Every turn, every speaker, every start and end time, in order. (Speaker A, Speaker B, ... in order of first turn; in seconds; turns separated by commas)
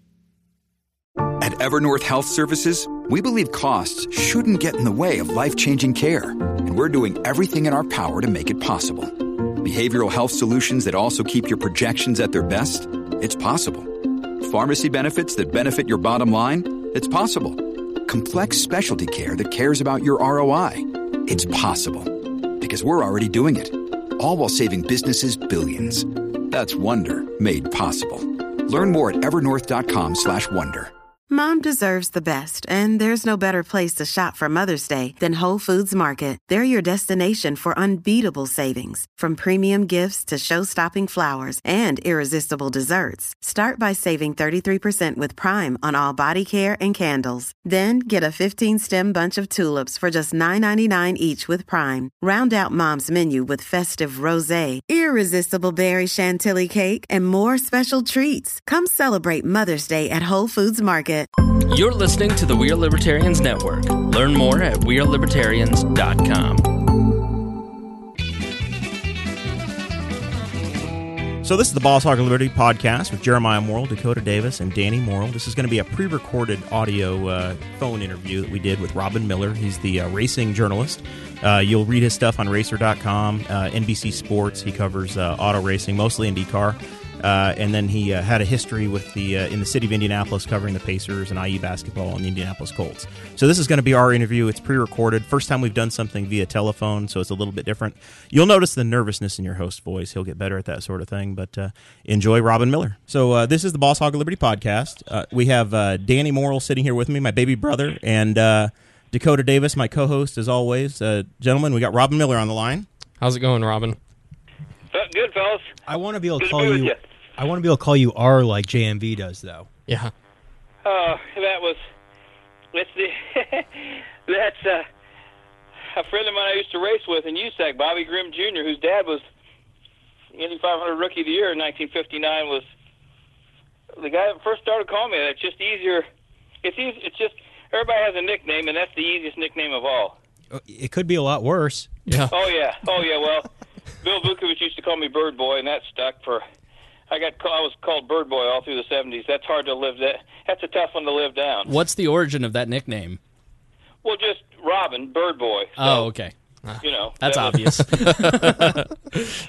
Speaker A: 1.4-30.9, Speaker B: 31.3-61.3, Speaker C: 61.6-66.8, Speaker D: 71.4-112.9, Speaker E: 113.2-114.0, Speaker F: 114.9-115.7, Speaker G: 115.9-119.7, Speaker F: 116.4-117.0, Speaker E: 119.9-120.1, Speaker F: 120.8-121.8, Speaker F: 122.7-124.9, Speaker F: 125.9-129.2, Speaker F: 130.3-132.7, Speaker F: 134.0-136.1, Speaker F: 136.6-140.2, Speaker G: 140.5-141.9, Speaker E: 142.1-142.3, Speaker F: 142.3-143.5, Speaker F: 144.0-146.4, Speaker F: 147.1-151.7, Speaker C: 151.7-153.2, Speaker F: 154.0-156.1, Speaker C: 155.8-156.3, Speaker F: 156.8-157.7, Speaker C: 157.2-158.8, Speaker E: 157.5-158.7